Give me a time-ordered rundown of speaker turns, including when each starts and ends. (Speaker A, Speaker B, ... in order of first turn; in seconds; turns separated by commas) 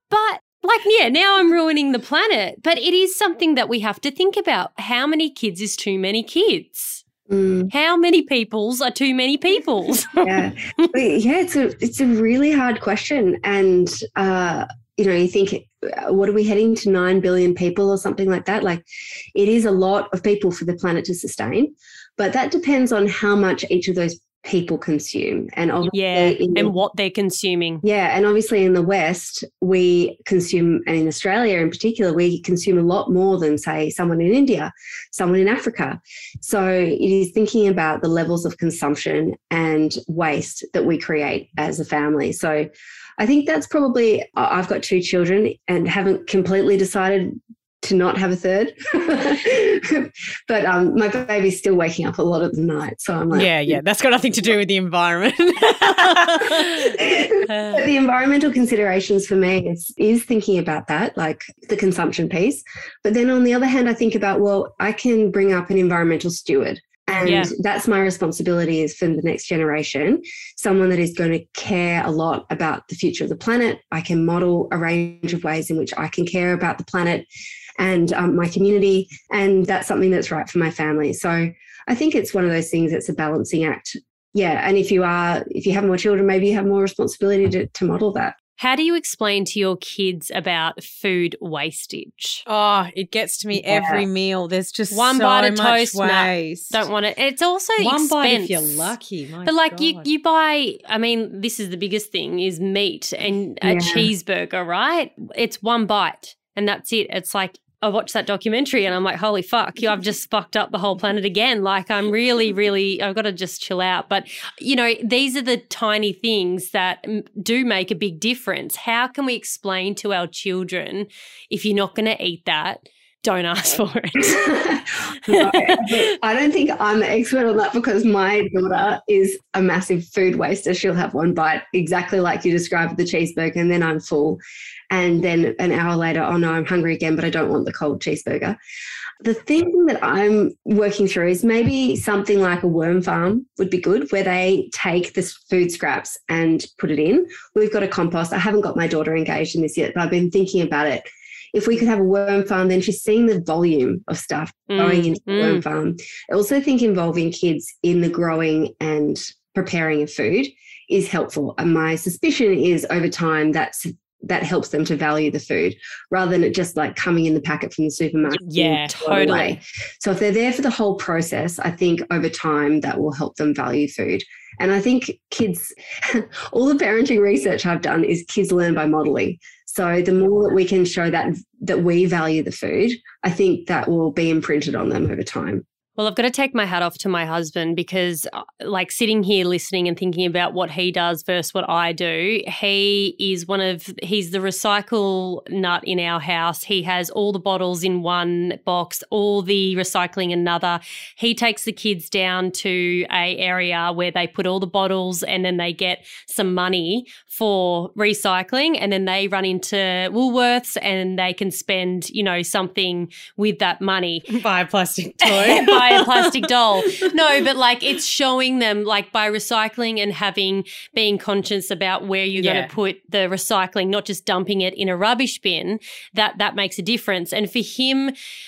Speaker A: 0.1-7.0, Speaker B: 7.3-7.7, Speaker A: 7.7-10.9, Speaker B: 10.2-26.7, Speaker A: 25.9-27.8, Speaker B: 27.8-53.8, Speaker C: 53.3-57.8, Speaker B: 56.5-77.3, Speaker A: 67.2-67.5, Speaker B: 77.8-88.3, Speaker A: 88.6-92.4, Speaker C: 92.5-96.8, Speaker B: 93.6-94.0, Speaker A: 94.9-98.9, Speaker C: 97.8-100.0, Speaker A: 99.5-124.6, Speaker B: 103.6-104.1, Speaker B: 124.3-134.4, Speaker A: 125.2-125.9, Speaker B: 134.9-138.6, Speaker B: 139.2-185.6, Speaker A: 154.7-155.6, Speaker C: 168.4-169.5, Speaker A: 186.0-214.3, Speaker C: 214.3-216.3, Speaker A: 215.2-228.1, Speaker C: 216.8-217.1, Speaker C: 222.3-222.7